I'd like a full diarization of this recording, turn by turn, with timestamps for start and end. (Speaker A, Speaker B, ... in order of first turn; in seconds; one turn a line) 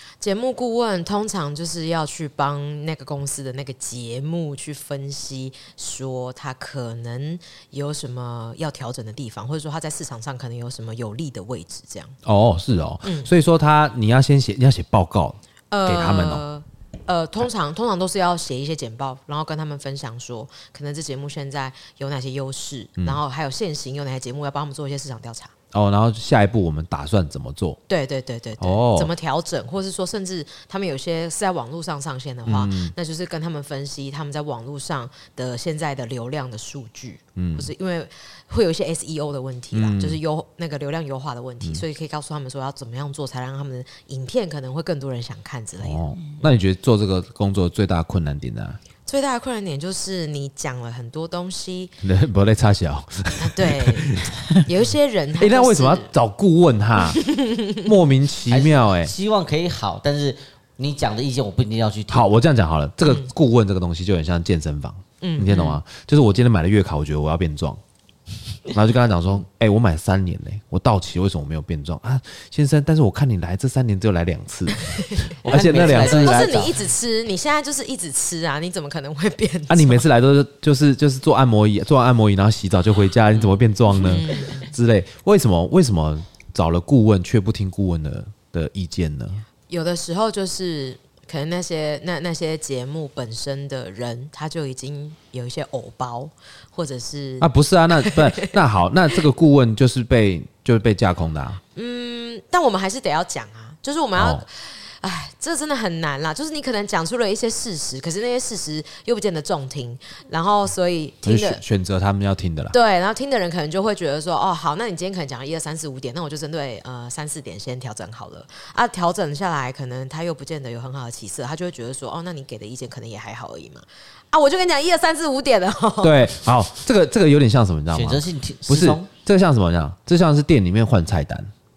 Speaker A: 0.2-12.2
Speaker B: 12.2-16.4
Speaker A: 13.0-13.3
Speaker A: 15.7-25.5
Speaker B: 25.7-27.8
Speaker A: 27.9-46.0
Speaker B: 28.6-29.1
Speaker B: 32.4-32.9
Speaker B: 37.4-37.7
Speaker B: 39.7-40.2
Speaker B: 45.8-48.8
Speaker A: 49.0-51.9
Speaker B: 52.0-54.3
Speaker A: 53.4-56.1
Speaker B: 55.4-57.2
Speaker A: 57.1-57.8
Speaker B: 57.8-59.1
Speaker C: 58.5-62.2
Speaker B: 62.1-67.8
Speaker A: 65.2-65.6
Speaker B: 68.7-76.6
Speaker C: 75.5-76.8
Speaker A: 75.7-80.0
Speaker B: 79.7-89.4
Speaker A: 83.9-84.7
Speaker A: 89.7-98.6
Speaker B: 97.4-101.6
Speaker A: 101.7-111.6
Speaker B: 104.1-104.4
Speaker B: 111.2-112.8
Speaker A: 112.7-126.5
Speaker B: 126.0-131.5
Speaker C: 127.9-129.1